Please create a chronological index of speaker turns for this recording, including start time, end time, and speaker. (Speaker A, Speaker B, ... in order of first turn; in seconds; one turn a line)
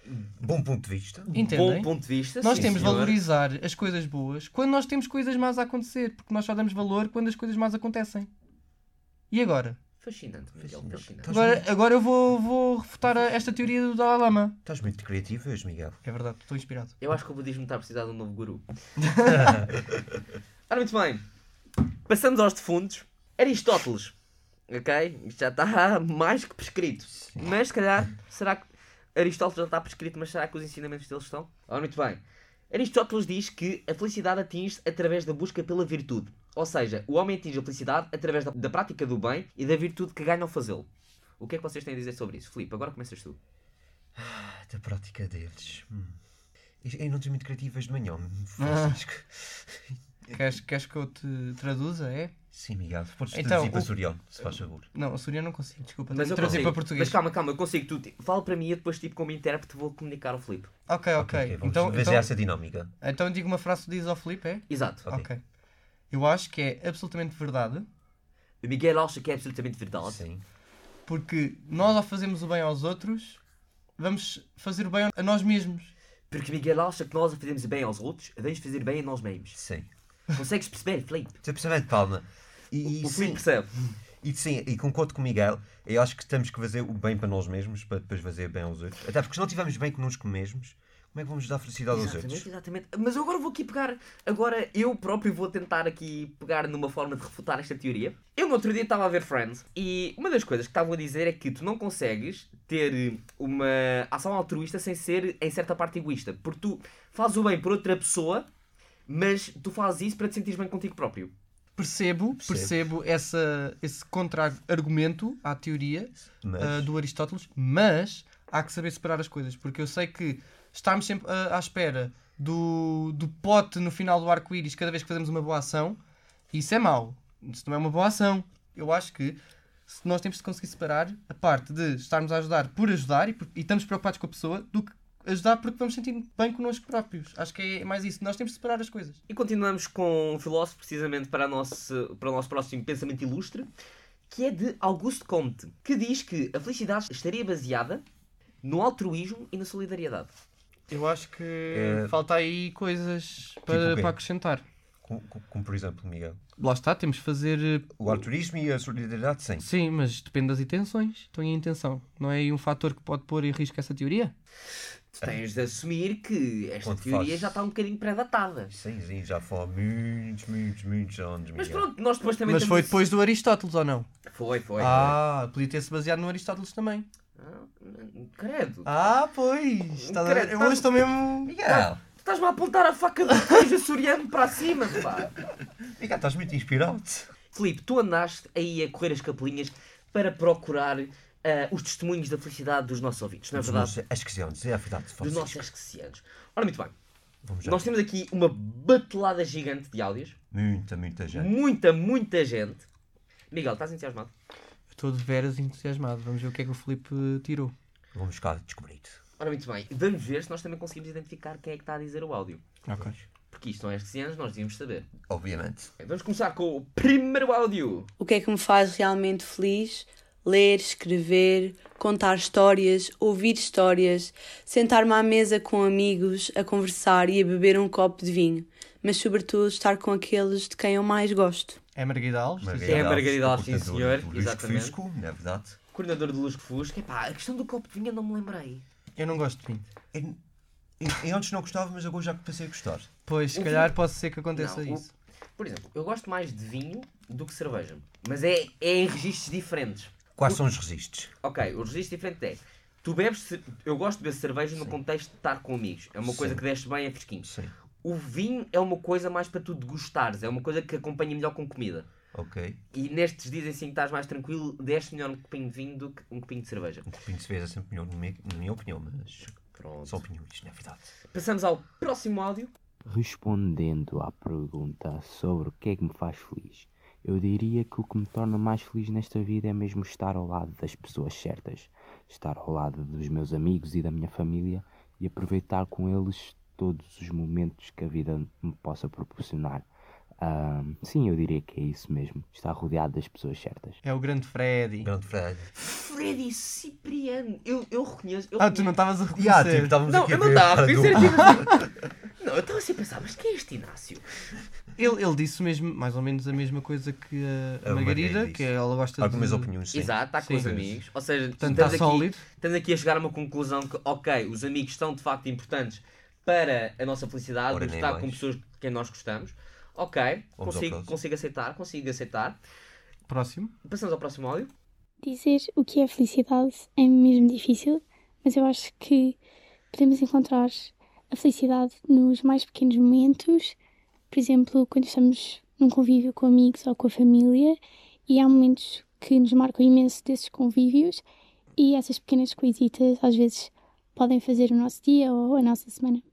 Speaker A: 0.1-1.6
Speaker B: 1.3-1.9
Speaker C: 1.4-3.2
Speaker B: 2.4-8.3
Speaker A: 2.5-3.2
Speaker B: 9.3-9.8
Speaker C: 10.0-11.3
Speaker A: 10.6-11.6
Speaker B: 11.3-14.6
Speaker A: 14.6-16.0
Speaker B: 16.0-16.9
Speaker C: 17.0-18.6
Speaker B: 19.0-19.5
Speaker A: 19.2-20.2
Speaker C: 20.7-21.2
Speaker C: 22.1-24.1
Speaker C: 24.7-40.9
Speaker C: 41.4-43.4
Speaker A: 44.1-46.2
Speaker A: 46.8-50.0
Speaker B: 48.6-49.0
Speaker B: 50.3-52.3
Speaker A: 52.5-54.9
Speaker B: 53.3-53.9
Speaker B: 54.9-57.2
Speaker C: 56.1-60.7
Speaker A: 56.4-56.8
Speaker B: 60.9-62.3
Speaker A: 61.2-62.9
Speaker B: 63.0-65.4
Speaker C: 64.7-65.0
Speaker B: 66.1-67.9
Speaker C: 68.6-70.2
Speaker A: 70.0-70.4
Speaker B: 71.0-73.4
Speaker B: 74.0-75.9
Speaker C: 76.3-79.6
Speaker A: 79.5-79.9
Speaker C: 80.3-81.3
Speaker A: 81.4-83.4
Speaker C: 82.8-83.7
Speaker A: 84.2-92.5
Speaker C: 91.9-108.5
Speaker C: 109.1-111.3
Speaker B: 111.8-126.0
Speaker A: 112.4-112.7
Speaker A: 116.4-116.9
Speaker B: 126.5-139.2
Speaker C: 139.3-143.7
Speaker C: 144.3-148.0
Speaker C: 148.6-150.3
Speaker B: 150.9-154.6
Speaker A: 151.7-152.2
Speaker A: 153.7-154.2
Speaker A: 155.0-156.4
Speaker B: 156.6-158.2
Speaker A: 157.9-159.7
Speaker B: 159.6-164.3
Speaker C: 165.1-168.7
Speaker A: 166.8-167.6
Speaker A: 168.7-171.9
Speaker C: 171.6-173.0
Speaker B: 172.5-174.1
Speaker C: 174.3-175.2
Speaker B: 174.8-177.1
Speaker A: 174.8-175.1
Speaker C: 177.4-178.9
Speaker B: 178.8-181.8
Speaker C: 180.0-180.9
Speaker A: 181.4-182.0
Speaker C: 181.7-185.3
Speaker A: 185.9-187.3
Speaker C: 187.5-193.9
Speaker A: 193.5-195.7
Speaker C: 195.2-196.9
Speaker A: 197.4-197.9
Speaker C: 197.6-200.4
Speaker A: 200.5-201.5
Speaker C: 201.3-202.8
Speaker C: 203.5-204.3
Speaker B: 204.9-207.7
Speaker A: 208.1-209.2
Speaker C: 209.4-212.6
Speaker B: 212.8-213.1
Speaker C: 213.5-215.1
Speaker A: 215.3-215.9
Speaker C: 216.0-218.1
Speaker D: 218.2-231.8
Speaker B: 231.9-233.1
Speaker A: 232.6-235.8
Speaker C: 232.9-234.9
Speaker C: 235.9-238.8
Speaker B: 239.2-239.8
Speaker A: 240.1-240.4
Speaker A: 241.0-243.1
Speaker B: 243.2-245.1
Speaker C: 243.5-243.9
Speaker C: 244.5-245.1
Speaker C: 245.6-250.6
Speaker A: 250.3-251.3
Speaker C: 251.4-257.5
Speaker A: 256.2-256.6
Speaker A: 257.4-257.7
Speaker C: 258.0-262.1
Speaker A: 262.3-262.8
Speaker C: 262.9-267.1
Speaker A: 267.1-271.0
Speaker C: 269.7-270.2
Speaker C: 271.3-272.7
Speaker E: 273.1-289.9
Speaker E: 290.4-294.0
Speaker B: 294.0-295.1
Speaker A: 295.0-295.7
Speaker C: 295.7-298.9
Speaker B: 298.6-300.0
Speaker A: 299.4-301.8
Speaker C: 300.1-301.8
Speaker B: 301.2-301.8
Speaker C: 302.4-304.2
Speaker B: 305.0-309.7
Speaker A: 307.8-311.0
Speaker C: 309.9-322.6
Speaker B: 310.4-310.7
Speaker B: 311.6-312.4
Speaker A: 311.6-312.1
Speaker A: 317.7-318.4
Speaker A: 320.6-321.1
Speaker B: 323.3-323.7
Speaker C: 323.8-324.7
Speaker F: 325.2-329.4
Speaker F: 329.9-333.8
Speaker F: 334.3-341.2
Speaker F: 341.8-346.2